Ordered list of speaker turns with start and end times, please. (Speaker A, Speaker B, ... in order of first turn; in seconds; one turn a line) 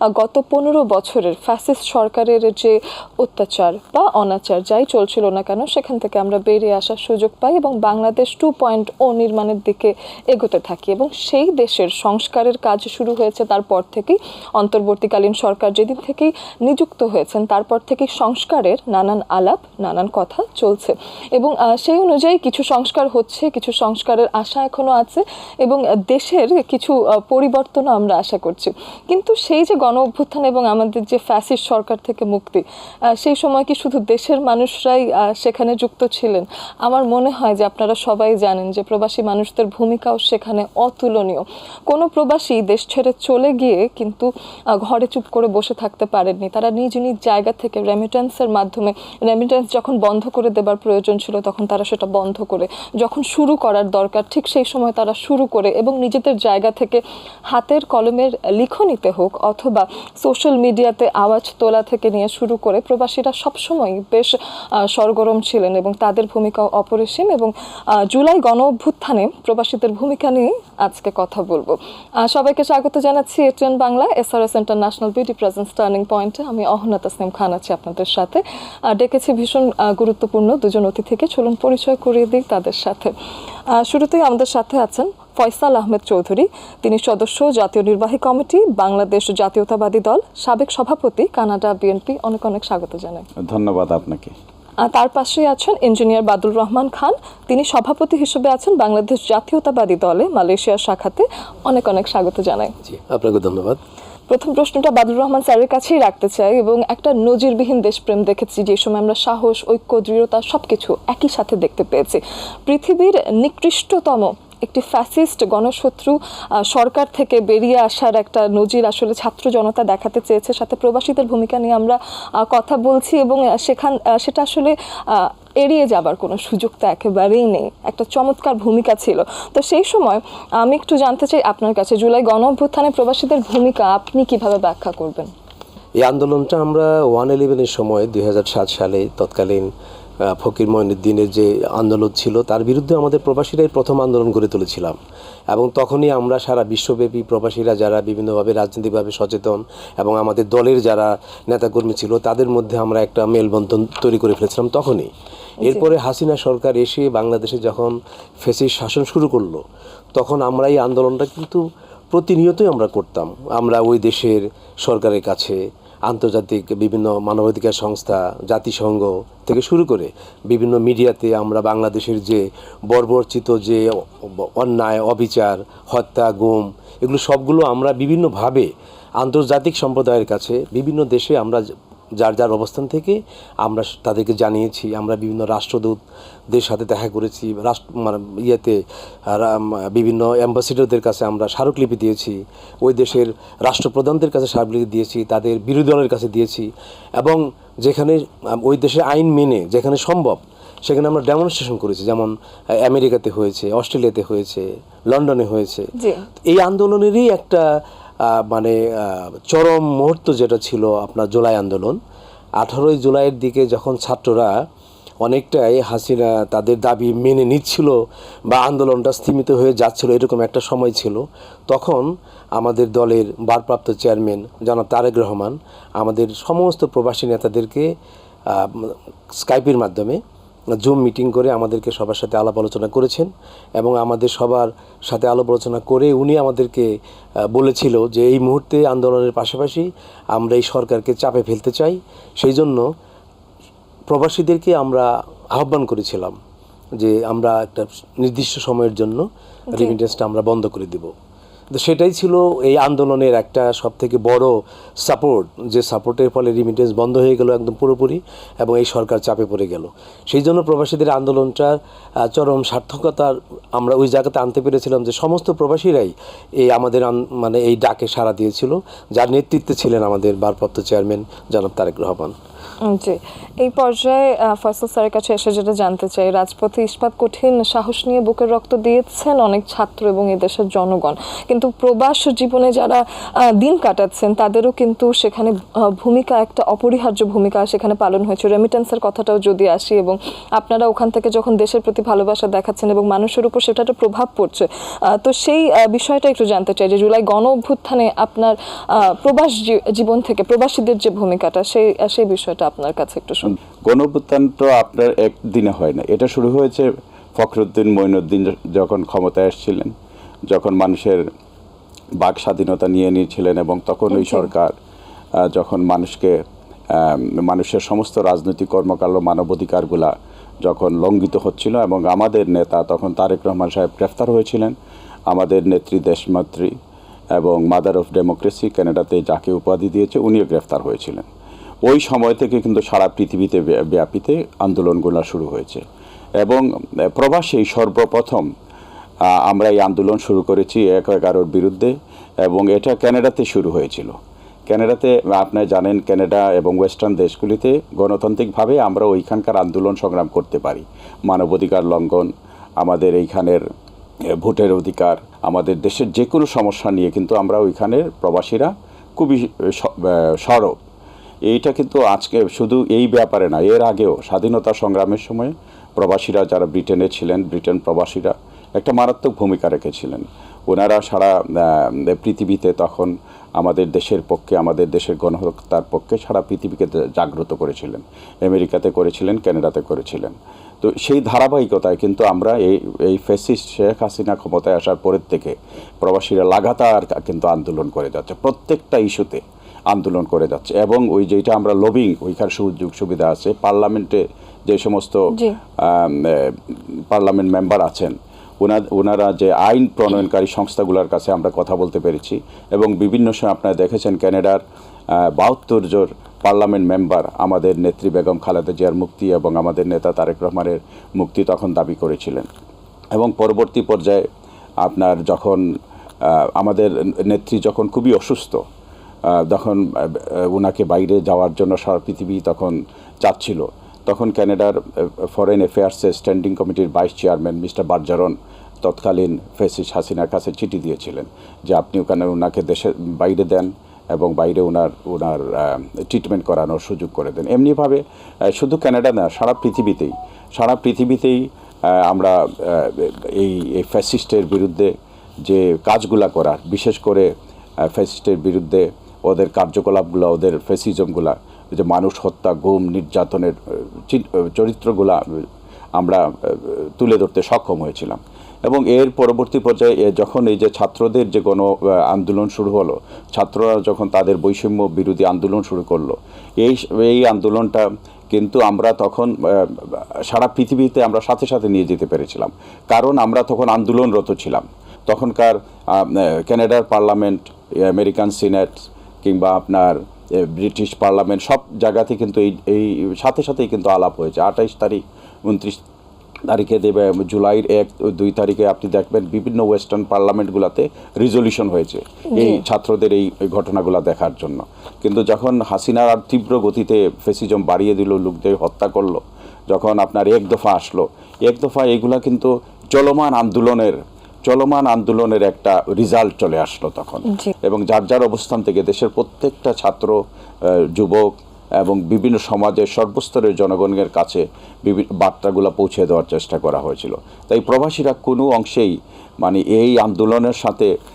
Speaker A: 0.1-83.1
Speaker A: 83.7-93.2
Speaker B: 93.4-94.3
Speaker A: 94.8-102.7
Speaker C: 102.8-103.8
Speaker A: 104.3-135.3
Speaker C: 136.0-139.7
Speaker C: 140.2-145.0
Speaker C: 145.5-155.1
Speaker A: 155.6-155.9
Speaker C: 155.6-159.6
Speaker C: 160.1-181.7
Speaker C: 182.2-186.0
Speaker C: 186.5-205.9
Speaker A: 205.9-206.2
Speaker C: 206.4-207.7
Speaker C: 208.2-212.0
Speaker C: 212.6-214.6
Speaker C: 215.2-227.9
Speaker C: 228.5-230.2
Speaker C: 230.8-236.9
Speaker C: 237.5-242.9
Speaker C: 244.1-246.3
Speaker C: 247.0-251.1
Speaker A: 249.7-249.9
Speaker C: 251.7-272.3
Speaker A: 272.9-283.0
Speaker A: 283.6-303.5
Speaker B: 303.9-309.9
Speaker B: 310.5-311.2
Speaker B: 312.2-314.7
Speaker A: 314.1-314.5
Speaker B: 315.4-316.4
Speaker B: 316.9-320.1
Speaker B: 320.6-324.7
Speaker B: 325.3-326.7
Speaker B: 327.4-331.2
Speaker B: 331.8-335.8
Speaker B: 336.4-338.5
Speaker B: 339.3-344.1
Speaker B: 344.7-353.6
Speaker B: 354.4-360.8
Speaker B: 361.4-404.6
Speaker A: 395.3-395.6
Speaker B: 405.1-412.5
Speaker B: 413.1-414.2
Speaker B: 414.8-415.6
Speaker B: 416.2-418.6
Speaker B: 419.3-444.9
Speaker B: 445.4-447.3
Speaker B: 447.9-453.6
Speaker B: 454.1-455.2
Speaker B: 456.0-485.8
Speaker B: 486.5-520.9
Speaker A: 492.3-492.6
Speaker A: 507.3-507.5